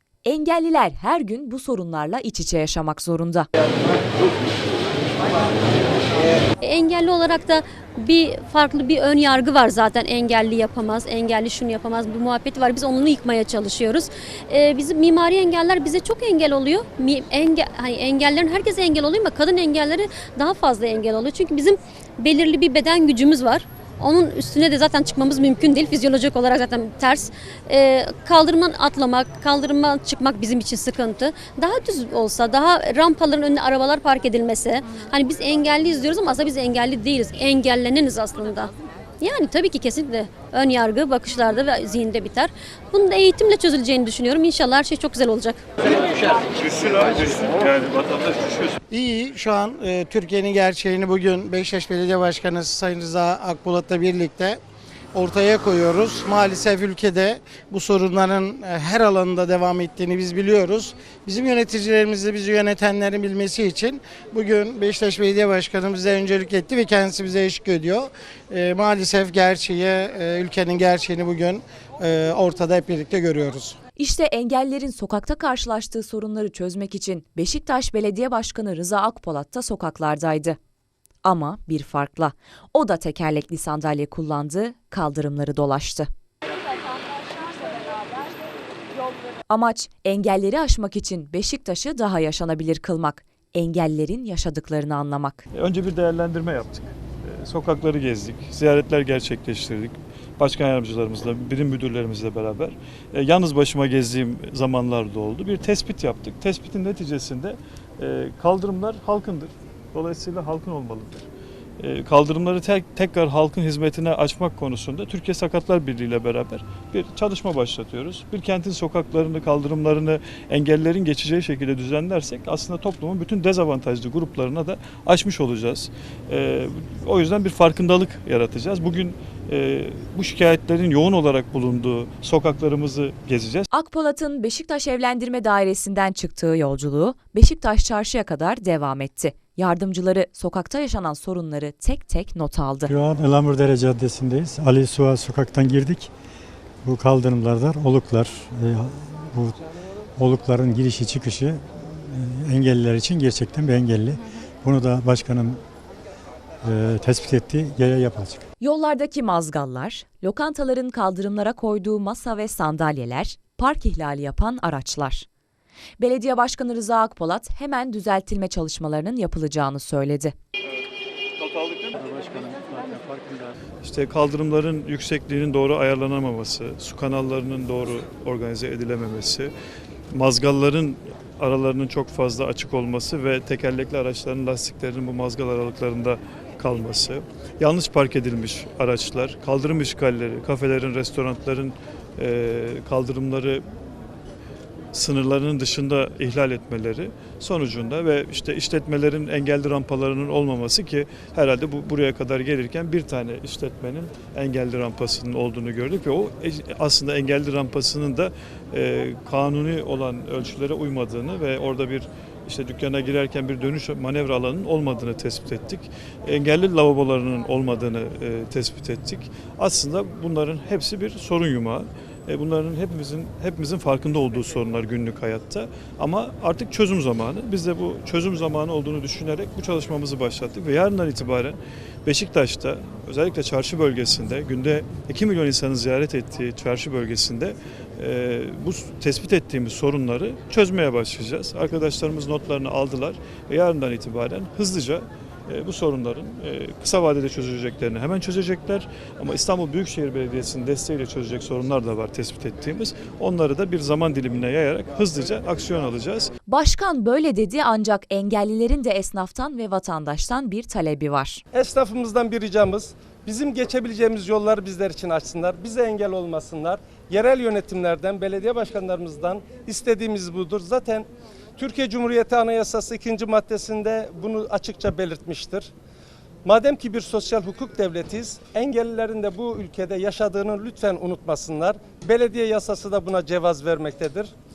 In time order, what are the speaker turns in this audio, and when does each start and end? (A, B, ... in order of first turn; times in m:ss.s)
0:00.2-0:03.5 A
0:06.6-0:45.7 B
0:46.2-0:48.8 C
0:48.9-0:54.6 D
0:55.1-1:13.8 D
1:14.0-1:20.6 A
1:21.2-1:26.1 A
1:29.5-1:35.4 A
1:35.5-1:51.2 C
1:51.8-2:13.7 C
2:13.7-2:22.9 A
2:22.8-2:26.1 E
2:26.8-2:29.6 E
2:30.2-2:35.6 E
2:36.6-2:38.4 E
2:38.6-2:45.3 A
2:46.0-2:50.3 A
2:51.4-2:52.1 C
2:52.2-2:53.3 E
2:53.8-2:59.5 C
3:00.1-3:13.6 C
3:14.9-4:16.3 C
4:16.5-4:21.4 A
4:21.5-4:31.0 F
4:31.6-4:35.7 F
4:36.4-4:44.3 F